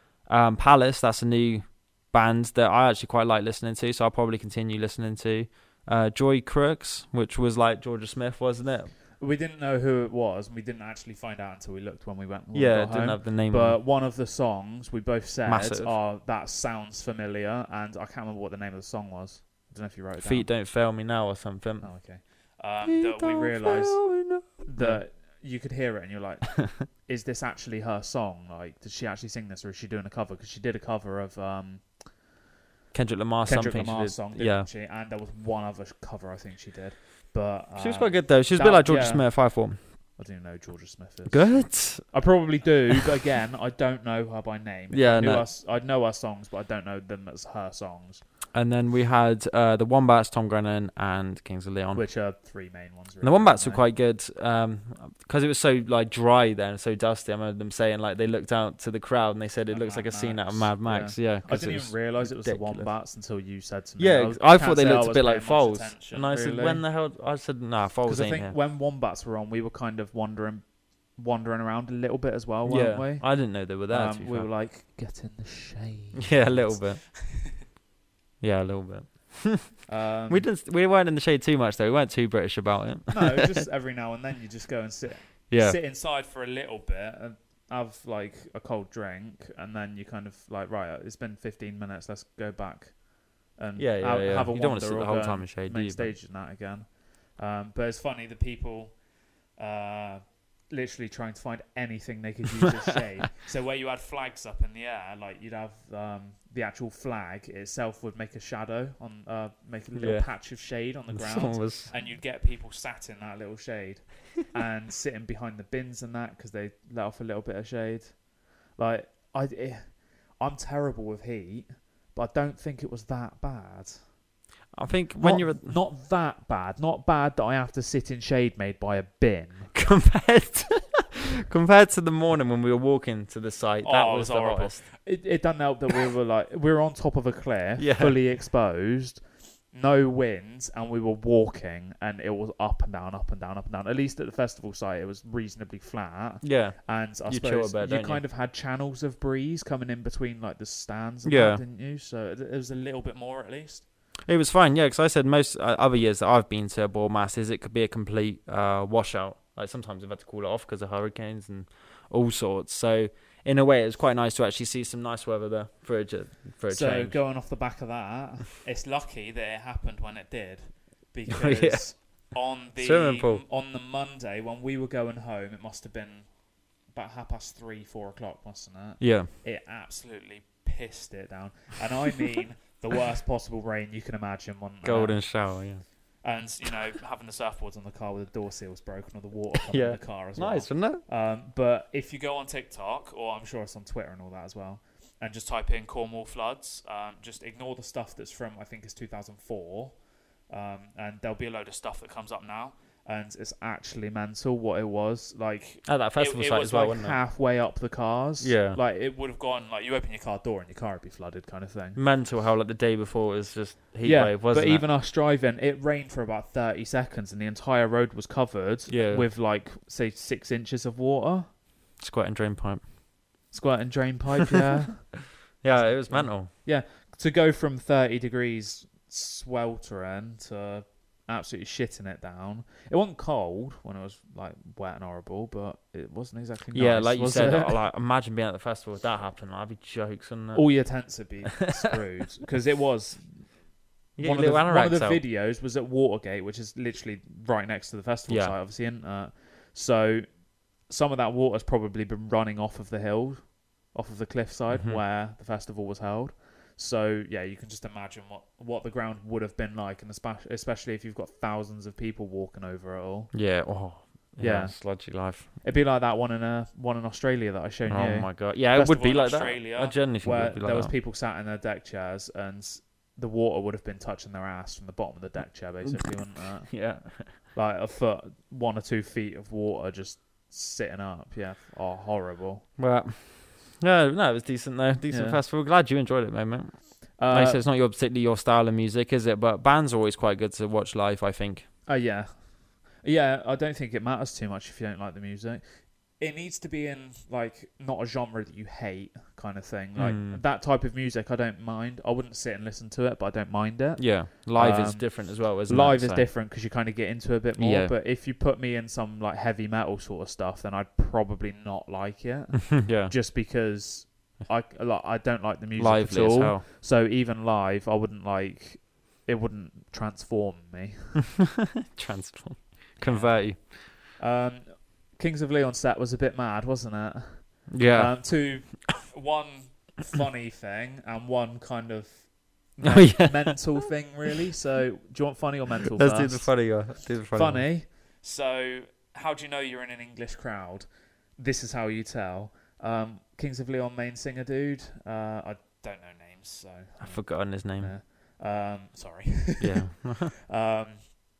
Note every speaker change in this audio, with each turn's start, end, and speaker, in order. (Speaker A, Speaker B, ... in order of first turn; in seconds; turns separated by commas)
Speaker A: 0.2-8.9, Speaker B: 9.2-20.5, Speaker A: 12.5-13.8, Speaker A: 15.5-16.0, Speaker A: 20.2-21.9, Speaker B: 21.8-32.0, Speaker A: 22.8-25.0, Speaker A: 32.9-34.7, Speaker B: 33.5-48.2, Speaker A: 37.8-39.8, Speaker A: 41.3-42.2, Speaker A: 44.9-45.5, Speaker A: 48.5-52.1, Speaker B: 51.9-53.8, Speaker A: 53.2-62.9, Speaker B: 59.7-66.8, Speaker A: 64.0-68.6, Speaker B: 68.0-77.5, Speaker A: 72.7-74.5, Speaker A: 76.2-77.1, Speaker A: 78.4-83.6, Speaker B: 79.9-80.5, Speaker B: 83.1-99.0, Speaker A: 85.5-85.8, Speaker A: 93.8-96.1, Speaker B: 99.6-118.2, Speaker A: 110.0-110.3, Speaker A: 111.1-111.9, Speaker B: 118.8-124.0, Speaker A: 124.7-125.8, Speaker B: 125.2-129.7, Speaker A: 129.7-134.9, Speaker B: 133.8-153.9, Speaker A: 137.8-138.2, Speaker A: 146.4-148.2, Speaker A: 151.2-151.6, Speaker A: 154.2-167.2, Speaker B: 166.7-176.3, Speaker A: 171.3-172.0, Speaker A: 172.8-173.4, Speaker B: 176.9-185.4, Speaker A: 179.0-179.3, Speaker A: 184.8-185.8, Speaker B: 186.2-200.0, Speaker A: 189.7-191.0, Speaker B: 200.5-212.0, Speaker A: 205.8-207.2, Speaker A: 208.4-208.8, Speaker A: 212.0-214.9, Speaker B: 214.0-221.5, Speaker A: 218.9-219.3, Speaker A: 222.0-222.9, Speaker B: 223.5-237.8, Speaker A: 225.6-226.5, Speaker A: 236.7-240.7, Speaker B: 240.5-243.6, Speaker A: 244.2-245.2, Speaker B: 244.2-250.3, Speaker A: 248.3-248.6, Speaker B: 250.8-263.3, Speaker A: 254.7-255.0, Speaker A: 263.3-265.5, Speaker B: 264.4-282.7, Speaker A: 267.9-270.9, Speaker A: 276.7-277.3, Speaker A: 282.8-291.7, Speaker B: 285.1-285.4, Speaker B: 287.2-287.6, Speaker B: 291.9-295.6, Speaker B: 296.2-321.3, Speaker A: 300.0-300.4, Speaker A: 304.0-306.3, Speaker A: 307.6-307.9, Speaker A: 312.7-313.1, Speaker A: 315.8-316.6, Speaker A: 321.6-323.8, Speaker B: 323.0-323.5, Speaker B: 324.2-351.2, Speaker A: 327.7-328.2, Speaker A: 332.8-333.7, Speaker A: 336.0-337.7, Speaker A: 347.0-347.9, Speaker A: 349.6-350.3